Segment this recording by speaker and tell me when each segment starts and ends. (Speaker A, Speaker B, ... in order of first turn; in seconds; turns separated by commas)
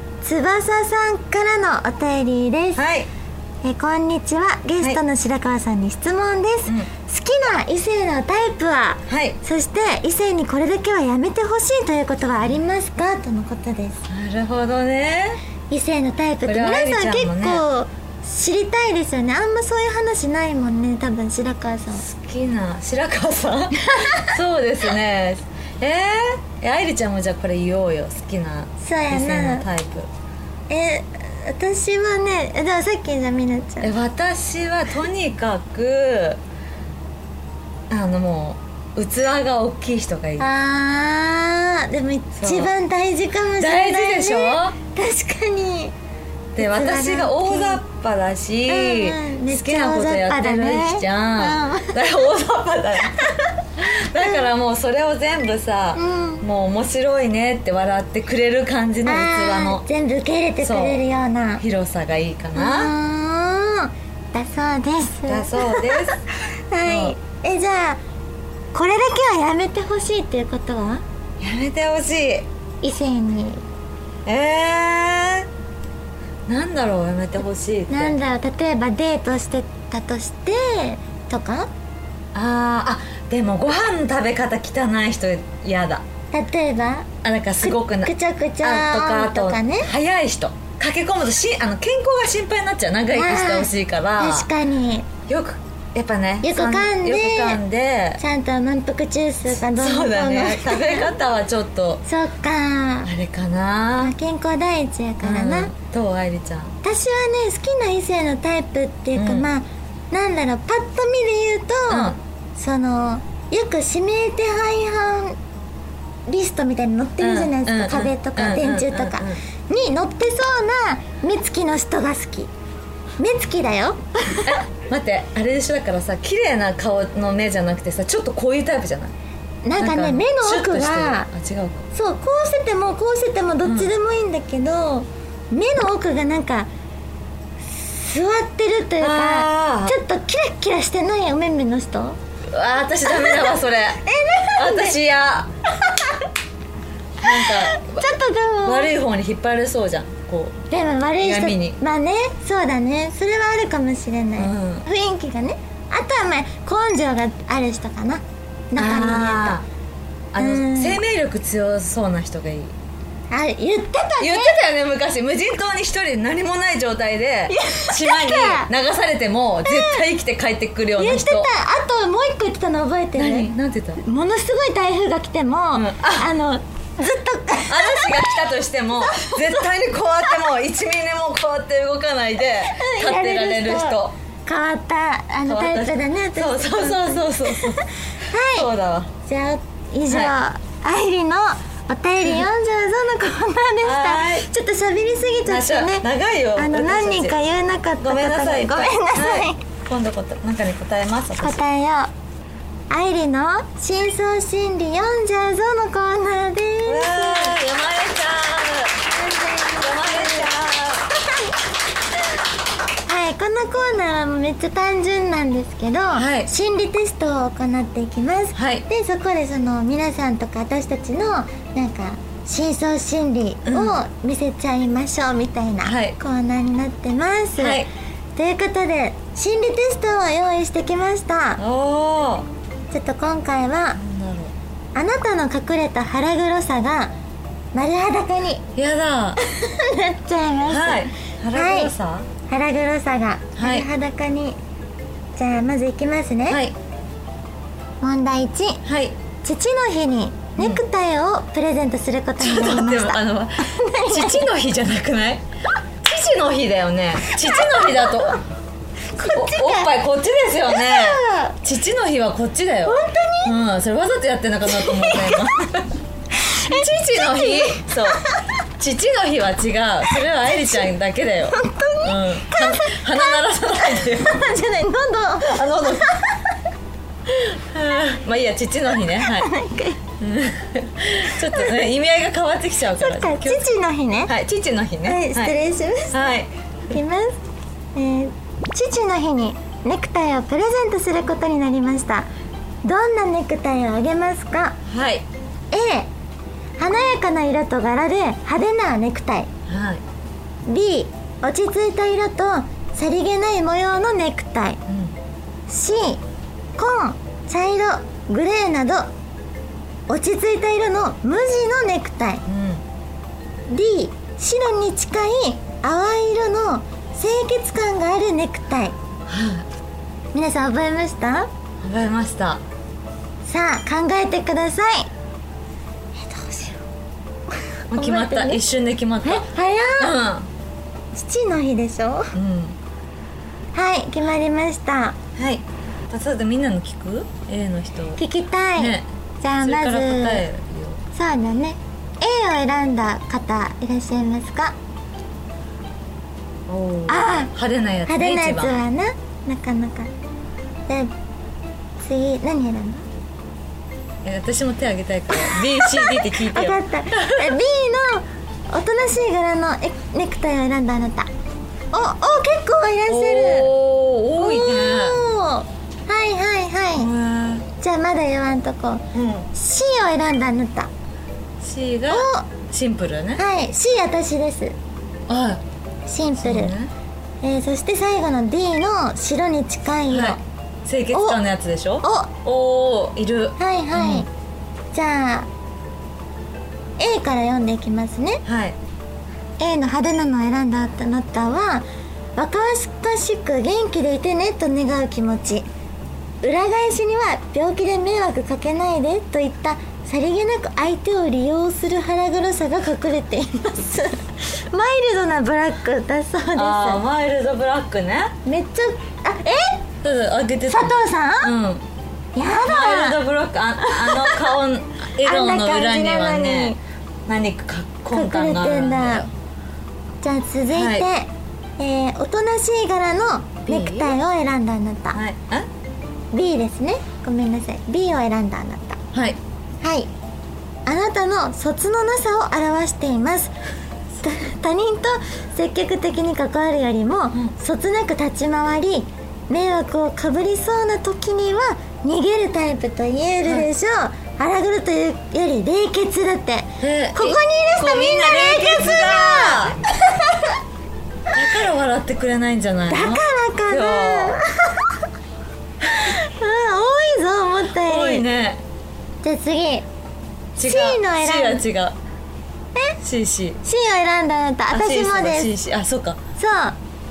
Speaker A: 0.2-2.8, Speaker B: 2.8-3.1, Speaker A: 3.6-14.0, Speaker B: 9.1-9.4, Speaker B: 14.1-15.4, Speaker A: 15.7-22.0, Speaker B: 16.4-17.6, Speaker B: 22.0-30.1, Speaker A: 23.8-24.4, Speaker A: 28.8-29.6, Speaker A: 30.7-33.9, Speaker B: 33.8-36.4, Speaker B: 37.9-40.5, Speaker A: 40.4-45.9, Speaker B: 42.4-42.7, Speaker B: 43.6-44.8, Speaker B: 46.5-59.8, Speaker A: 46.6-47.8, Speaker A: 48.7-52.0, Speaker A: 53.2-53.5, Speaker A: 56.0-56.4, Speaker A: 59.0-61.6, Speaker B: 60.6-61.0, Speaker B: 61.6-62.9, Speaker A: 62.5-68.0, Speaker B: 65.3-66.2, Speaker B: 66.8-67.1, Speaker A: 68.7-71.0, Speaker B: 71.4-72.5, Speaker A: 72.8-73.6, Speaker B: 74.2-75.5, Speaker B: 76.5-78.2, Speaker A: 77.9-81.7, Speaker B: 82.3-86.0, Speaker A: 86.3-87.1, Speaker B: 87.2-94.5, Speaker A: 87.6-89.9, Speaker A: 93.1-95.1, Speaker B: 95.3-98.2, Speaker A: 96.4-97.6, Speaker A: 98.2-101.1, Speaker B: 99.7-102.0, Speaker A: 102.0-103.1, Speaker B: 103.0-104.1, Speaker A: 104.0-105.7, Speaker B: 105.2-106.8, Speaker A: 106.8-115.4, Speaker B: 109.1-109.5, Speaker B: 111.9-112.2, Speaker A: 116.3-122.5, Speaker B: 117.2-119.4, Speaker A: 123.2-124.6, Speaker B: 124.4-129.1, Speaker A: 129.6-131.3, Speaker B: 129.8-131.8, Speaker A: 131.9-136.7, Speaker B: 133.6-133.9, Speaker A: 137.7-142.2, Speaker B: 139.0-139.9, Speaker B: 142.5-144.0, Speaker A: 143.0-145.0, Speaker B: 144.5-145.5, Speaker A: 145.8-146.3, Speaker B: 147.2-148.0, Speaker A: 147.2-148.9, Speaker B: 148.6-150.6, Speaker A: 150.7-159.6, Speaker B: 151.2-151.8, Speaker B: 154.4-154.8, Speaker B: 158.8-159.6, Speaker B: 160.3-162.7, Speaker A: 160.4-161.0, Speaker A: 163.3-164.6, Speaker B: 164.2-171.5, Speaker A: 167.5-168.7, Speaker A: 169.7-170.0, Speaker A: 171.0-178.4, Speaker B: 173.2-174.0, Speaker B: 175.7-176.3, Speaker B: 177.6-184.1, Speaker A: 179.1-179.6, Speaker A: 182.6-188.7, Speaker B: 185.5-187.8, Speaker B: 188.4-189.1, Speaker A: 189.2-199.6, Speaker B: 190.1-190.3, Speaker B: 193.8-194.5, Speaker B: 195.5-197.3, Speaker B: 198.0-201.6, Speaker A: 201.4-202.1, Speaker A: 202.9-207.6, Speaker B: 206.8-209.1, Speaker A: 209.1-210.5, Speaker B: 209.8-211.2, Speaker A: 213.0-227.8, Speaker B: 216.1-216.5, Speaker B: 218.5-218.8, Speaker B: 223.6-224.0, Speaker B: 225.8-226.2, Speaker B: 227.6-227.9, Speaker A: 228.3-231.6, Speaker B: 231.6-232.5, Speaker A: 232.9-234.0, Speaker B: 234.0-234.5, Speaker A: 234.9-237.1, Speaker A: 237.7-238.6, Speaker B: 238.8-239.4, Speaker A: 239.4-241.9, Speaker B: 240.7-242.3, Speaker A: 242.5-244.6, Speaker B: 243.6-243.8, Speaker A: 245.3-246.6, Speaker B: 246.5-246.8, Speaker A: 248.0-248.8, Speaker B: 248.8-249.2, Speaker A: 249.4-254.5, Speaker B: 252.4-255.4, Speaker B: 256.0-258.4, Speaker A: 257.3-258.4, Speaker A: 259.1-259.9, Speaker B: 259.2-265.9, Speaker A: 260.7-261.6, Speaker A: 262.9-263.6, Speaker A: 264.7-265.5, Speaker A: 266.3-268.5, Speaker B: 266.5-268.2, Speaker B: 268.8-274.4, Speaker A: 271.5-276.6, Speaker B: 275.4-276.2, Speaker B: 277.2-279.5, Speaker A: 279.2-280.0, Speaker B: 280.2-283.7, Speaker A: 283.0-284.3, Speaker B: 284.3-285.5, Speaker A: 285.0-286.2, Speaker B: 286.1-286.5, Speaker A: 286.9-287.4, Speaker A: 287.9-292.3, Speaker A: 292.8-294.8, Speaker B: 294.9-295.2, Speaker A: 295.7-296.1, Speaker A: 296.8-299.5, Speaker B: 299.7-300.0, Speaker A: 300.6-304.8, Speaker B: 304.9-305.1, Speaker A: 305.7-306.2, Speaker A: 306.8-309.1, Speaker A: 310.1-312.4, Speaker B: 312.5-312.8, Speaker A: 313.7-318.9, Speaker B: 319.3-319.7, Speaker A: 320.3-321.5, Speaker B: 321.8-322.6, Speaker A: 323.4-325.1, Speaker A: 326.1-326.8, Speaker B: 327.9-329.5, Speaker A: 327.9-328.6, Speaker A: 329.2-330.2, Speaker B: 330.0-330.5, Speaker A: 331.1-332.3, Speaker B: 332.3-332.8, Speaker A: 333.7-335.2, Speaker B: 335.4-338.2, Speaker A: 338.2-340.4, Speaker B: 338.8-339.0, Speaker B: 339.6-341.0, Speaker A: 341.1-344.8, Speaker B: 346.7-348.8, Speaker A: 347.1-347.5, Speaker A: 348.1-350.1, Speaker A: 352.0-353.0, Speaker B: 354.2-357.5, Speaker A: 355.3-361.3, Speaker A: 361.9-363.7, Speaker B: 363.1-365.2, Speaker A: 364.4-367.1, Speaker B: 367.0-367.6, Speaker A: 367.8-370.9, Speaker B: 369.1-369.5, Speaker B: 371.6-373.4, Speaker A: 372.1-372.5, Speaker A: 373.4-374.8, Speaker B: 375.3-375.6, Speaker A: 376.1-376.7, Speaker B: 376.4-376.9, Speaker A: 377.4-380.4, Speaker B: 380.1-384.2, Speaker A: 381.1-381.4, Speaker A: 382.0-382.3, Speaker A: 383.6-384.3, Speaker A: 384.9-385.5, Speaker A: 387.0-388.4, Speaker B: 388.4-388.8, Speaker A: 389.6-395.6, Speaker A: 396.4-407.0, Speaker B: 406.5-408.4, Speaker A: 408.4-409.8, Speaker B: 410.0-411.8, Speaker A: 410.7-411.5, Speaker A: 412.4-413.2, Speaker B: 412.6-419.3, Speaker A: 414.0-414.4, Speaker A: 415.2-416.8, Speaker A: 418.1-419.2, Speaker A: 420.2-425.2, Speaker B: 420.7-421.1, Speaker B: 423.7-424.1, Speaker B: 425.1-425.7, Speaker A: 426.3-429.0, Speaker B: 429.1-429.4, Speaker A: 429.8-430.1, Speaker A: 430.9-433.5, Speaker A: 434.2-450.5, Speaker B: 446.8-449.8, Speaker B: 451.3-454.4, Speaker A: 452.9-455.0, Speaker A: 455.8-458.2, Speaker B: 457.8-458.6, Speaker A: 459.2-459.8, Speaker B: 460.6-461.9, Speaker A: 460.6-461.6, Speaker B: 463.0-463.6, Speaker A: 463.6-465.5, Speaker B: 464.7-466.2, Speaker A: 466.4-466.8